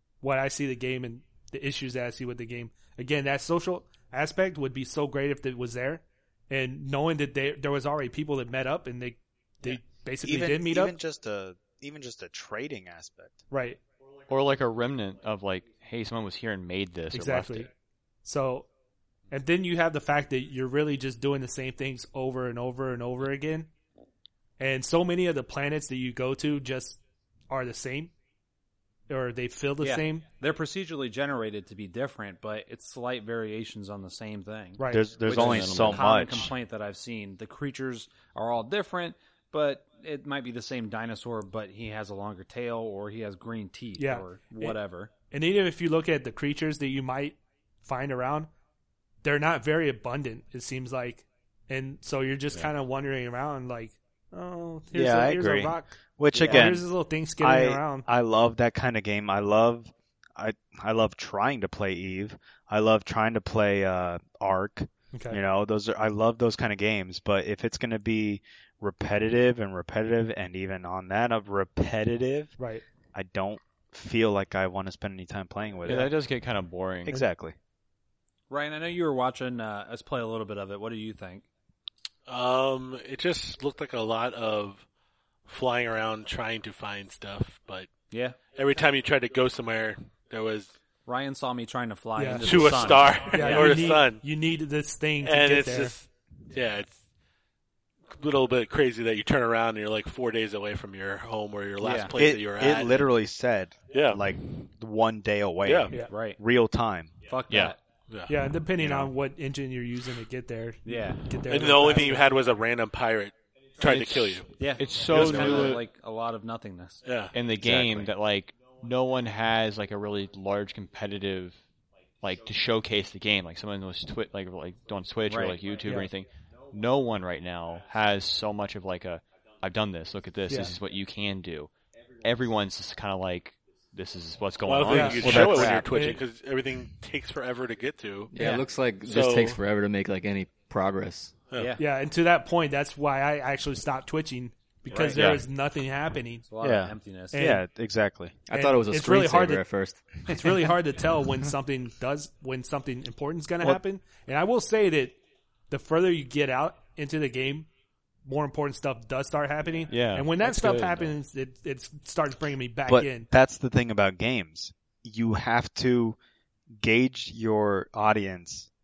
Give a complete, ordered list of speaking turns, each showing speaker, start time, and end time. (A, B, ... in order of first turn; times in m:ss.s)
0:00.2-0:11.0 A
0:10.2-0:13.4 B
0:13.5-0:13.8 A
0:14.3-0:17.7 C
0:17.1-0:17.7 A
0:18.2-0:18.7 A
0:19.3-0:23.7 A
0:24.6-0:27.0 A
0:27.5-0:28.1 A
0:29.1-0:30.2 A
0:29.8-0:45.1 D
0:34.8-0:35.1 A
0:34.9-0:36.5 B
0:35.2-0:36.3 C
0:44.0-0:44.8 A
0:45.3-0:48.5 A
0:49.2-0:58.0 A
0:54.9-0:56.9 B
0:56.3-0:56.7 D
0:57.4-1:12.5 B
1:05.1-1:05.4 A
1:12.6-1:12.8 A
1:13.1-1:16.1 B
1:15.8-1:17.2 C
1:17.1-1:17.6 B
1:18.5-1:21.4 D
1:22.3-1:24.8 E
1:25.4-1:27.9 E
1:28.1-1:28.4 D
1:28.5-1:30.7 E
1:31.0-1:34.0 D
1:32.2-1:36.0 A
1:32.4-1:34.2 E
1:35.2-1:37.0 E
1:38.1-1:43.0 E
1:41.8-1:42.2 D
1:42.1-1:47.2 B
1:43.9-1:44.2 E
1:45.6-1:46.0 E
1:46.0-1:46.4 D
1:47.3-1:47.8 D
1:47.5-1:47.7 C
1:48.1-1:48.4 E
1:48.3-1:52.3 A
1:48.8-1:49.1 B
1:50.8-1:51.2 D
1:51.5-1:55.8 E
1:54.5-1:57.0 D
1:54.8-1:55.8 C
1:57.0-1:57.3 E
1:57.3-2:01.6 C
1:57.6-1:58.1 D
2:02.2-2:11.7 C
2:05.3-2:05.6 D
2:05.8-2:06.1 A
2:12.2-2:15.9 C
2:14.6-2:18.5 E
2:14.9-2:16.2 A
2:18.3-2:21.4 F
2:18.4-2:18.6 D
2:19.0-2:19.6 E
2:21.5-2:21.8 D
2:21.8-2:26.4 A
2:24.9-2:25.4 D
2:25.1-2:25.4 B
2:26.5-2:27.4 D
2:26.6-2:28.4 B
2:27.3-2:27.6 A
2:28.4-2:30.2 F
2:28.5-2:29.6 A
2:30.3-2:35.2 A
2:35.7-2:37.7 A
2:38.2-2:43.3 A
2:39.9-2:41.1 C
2:42.9-2:46.2 B
2:46.7-2:48.7 B